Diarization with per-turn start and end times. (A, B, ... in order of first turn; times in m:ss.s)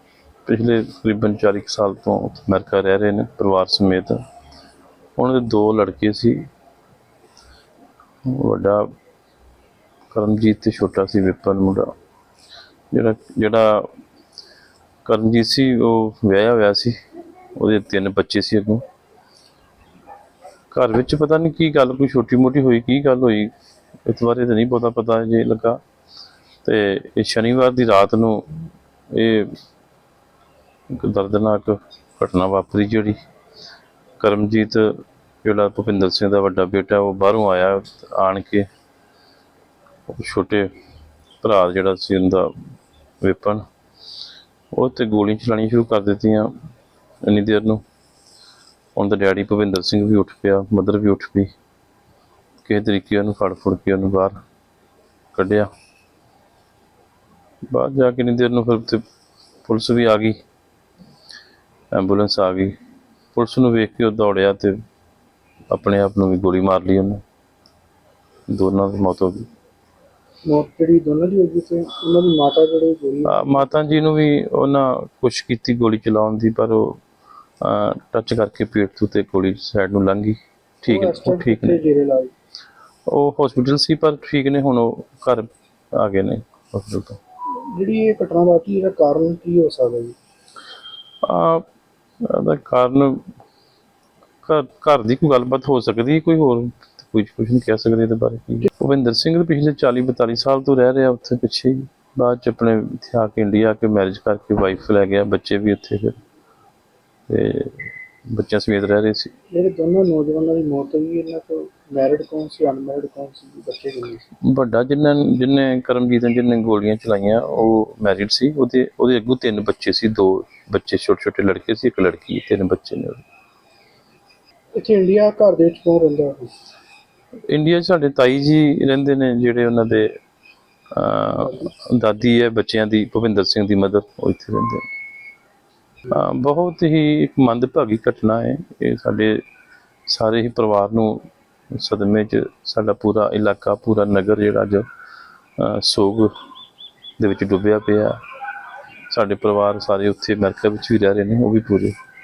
0:00.5-0:04.2 A
0:05.2-0:06.4 A
0:08.2-0:08.9 A
0:10.1-0:11.9 A
0:12.9-0:13.9 A
0:15.0-0:17.0 A
0:17.6-0:18.8 A
0:20.7-0:23.5 A
0:24.0-0:25.8 A
0:26.6-0:28.4 A
0:29.1-0:29.5 A
0:30.9-0:33.2 A
0:34.2-0:34.9 A
0:35.4-0:38.7 A
0:40.1-0:40.7 A
0:41.4-0:42.5 A
0:43.2-0:43.6 A
0:44.7-0:46.5 A
0:47.2-0:47.8 A
0:49.0-0:51.5 A
0:52.6-0:54.4 A
0:55.3-0:55.7 A
0:57.7-0:59.0 A
0:59.6-1:00.4 A
1:01.9-1:02.7 A
1:03.3-1:04.8 A
1:05.7-1:07.2 A
1:08.5-1:09.5 A
1:10.5-1:13.8 B
1:13.2-1:17.0 A
1:17.6-1:21.8 A
1:20.9-1:22.3 B
1:23.1-1:27.2 A
1:27.6-1:30.2 B
1:31.2-1:31.6 A
1:32.2-1:33.2 A
1:34.4-1:46.2 A
1:47.3-1:49.3 A
1:49.5-1:54.3 B
1:54.4-2:03.2 A
2:04.8-2:06.5 B
2:07.5-2:10.1 A
2:10.9-2:14.8 A
2:11.4-2:11.7 B
2:16.1-2:19.4 A
2:20.1-2:24.8 A
2:25.6-2:26.3 A
2:27.2-2:28.2 A
2:29.1-2:31.9 A